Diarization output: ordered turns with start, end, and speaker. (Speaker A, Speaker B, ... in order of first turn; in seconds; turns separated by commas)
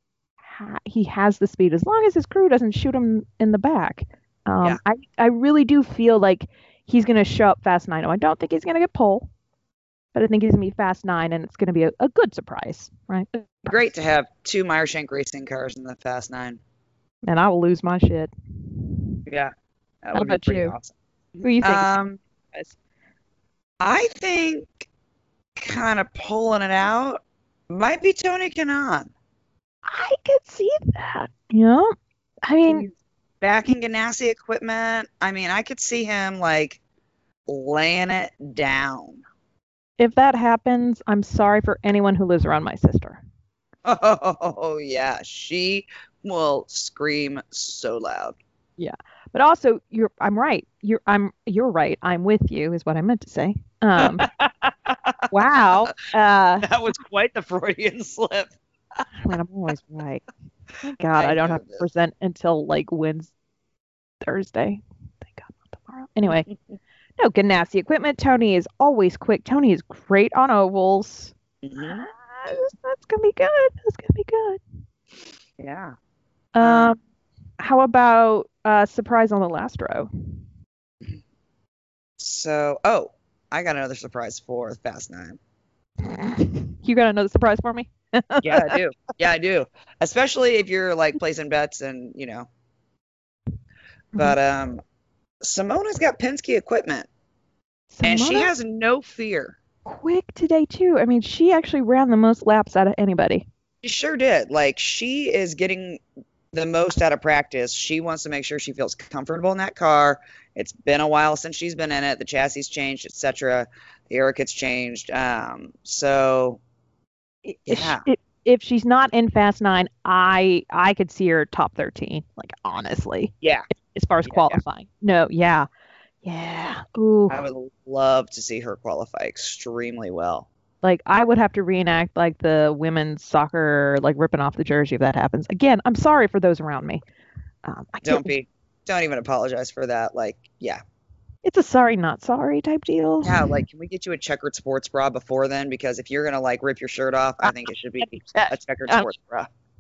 Speaker A: 0.4-9.3, Speaker A: 10.1-13.3, Speaker B: 13.7-16.6, Speaker A: 17.2-19.2, Speaker B: 19.3-19.5, Speaker B: 20.0-22.2, Speaker A: 20.1-20.8, Speaker A: 21.4-21.9, Speaker B: 23.8-24.9, Speaker B: 25.6-29.1, Speaker A: 29.9-31.9, Speaker A: 32.4-32.9, Speaker B: 32.7-36.8, Speaker B: 37.5-39.2, Speaker A: 40.0-43.2, Speaker B: 43.9-48.4, Speaker A: 48.8-54.3, Speaker B: 54.0-55.3, Speaker A: 55.3-56.7, Speaker B: 56.6-58.5, Speaker A: 59.1-60.2, Speaker A: 60.8-63.3, Speaker B: 61.1-61.9, Speaker A: 64.2-66.5, Speaker A: 67.2-74.6, Speaker B: 71.6-72.1, Speaker B: 75.6-75.9, Speaker A: 76.5-77.0, Speaker B: 76.6-77.0, Speaker A: 77.6-80.1, Speaker B: 82.2-85.4, Speaker A: 86.0-88.8, Speaker B: 88.4-92.5, Speaker B: 94.2-94.8, Speaker B: 95.4-97.1, Speaker A: 97.9-98.5, Speaker B: 98.0-99.6, Speaker A: 99.8-103.5, Speaker B: 103.8-116.6, Speaker A: 117.5-123.3, Speaker B: 117.7-118.0, Speaker B: 123.4-123.7, Speaker A: 123.9-125.7, Speaker B: 124.3-124.6, Speaker A: 126.2-127.4, Speaker B: 127.3-130.5, Speaker A: 130.8-137.0, Speaker A: 137.6-138.3, Speaker B: 138.0-140.8, Speaker A: 141.4-143.6, Speaker B: 143.2-149.5, Speaker A: 147.4-149.1